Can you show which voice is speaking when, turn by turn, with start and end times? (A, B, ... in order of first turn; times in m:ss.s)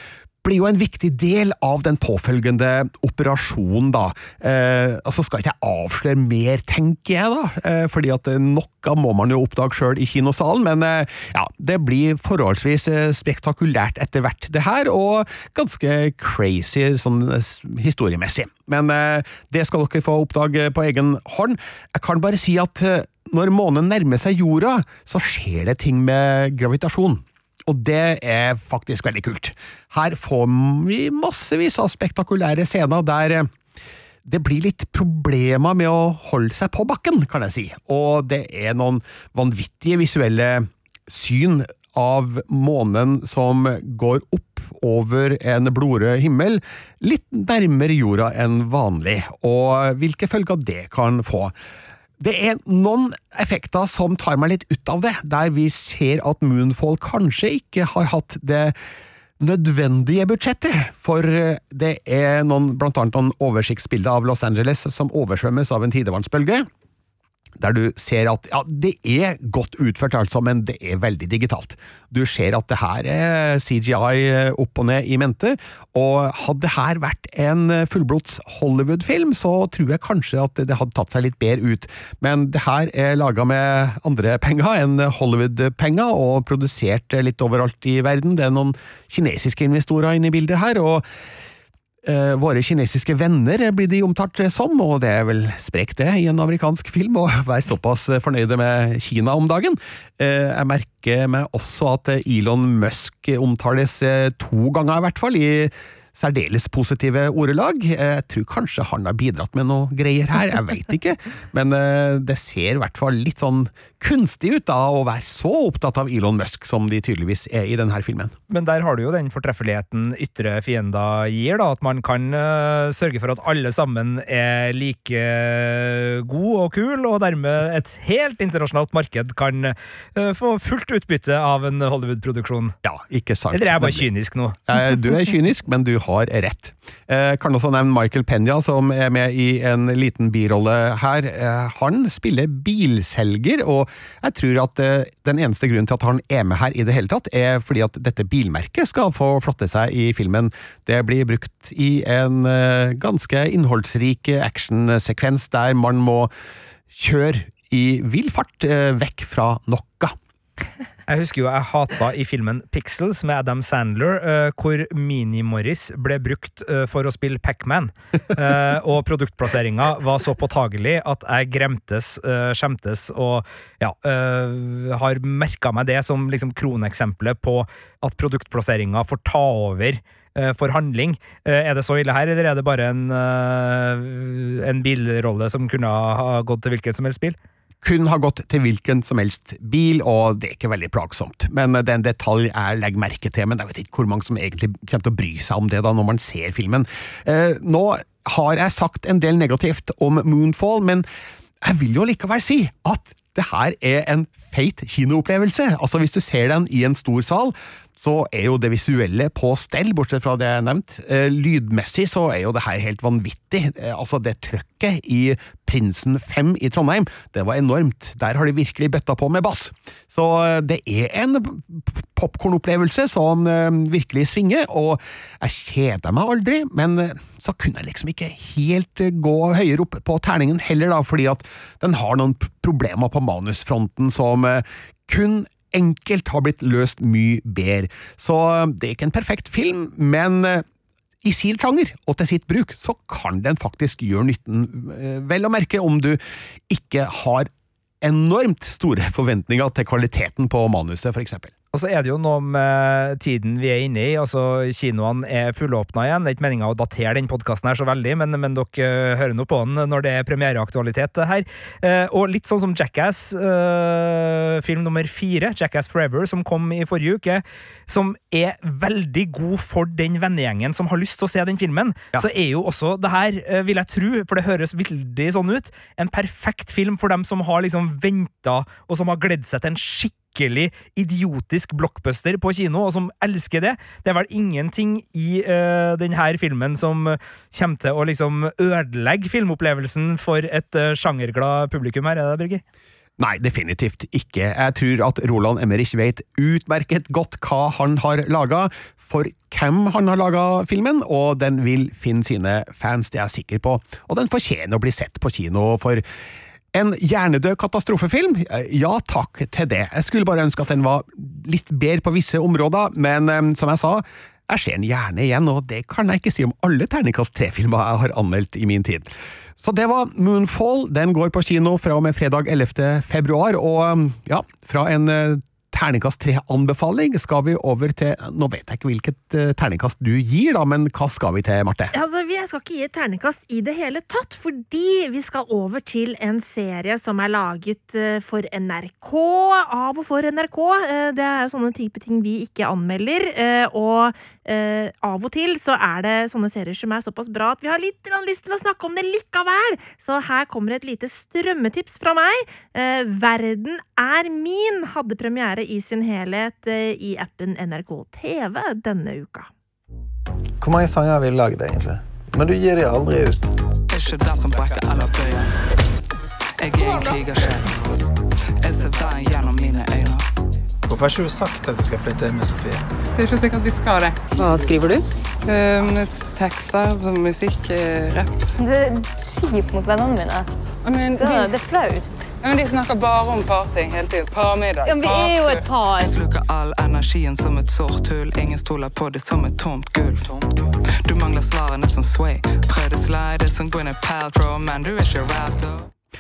0:00.4-0:33.5 A
0:34.2-0:51.6 A
0:52.2-0:58.8 A
0:59.4-1:06.7 A
1:07.6-1:31.0 A
1:32.0-1:58.3 A
1:58.5-2:12.8 B
2:12.8-2:14.1 A
2:13.5-2:14.6 B
2:14.7-2:36.3 A
2:36.9-2:40.1 A
2:41.1-3:07.4 B
3:07.8-3:21.1 A
3:21.6-4:00.6 A
4:01.2-4:07.5 A
4:08.0-4:11.5 A
4:11.7-4:52.6 B
4:53.2-5:06.0 A
5:06.7-5:31.9 A
5:31.9-5:59.5 C
6:00.6-6:03.5 D
6:03.9-6:05.5 E
6:06.6-6:07.8 E
6:08.6-6:10.2 E
6:10.9-6:12.7 D
6:13.2-6:14.3 F
6:15.4-6:18.3 F
6:18.6-6:20.5 G
6:20.8-6:21.5 F
6:21.2-6:22.3 G
6:22.4-6:25.2 F
6:24.8-6:26.1 G
6:25.0-6:30.4 E
6:31.0-6:35.9 E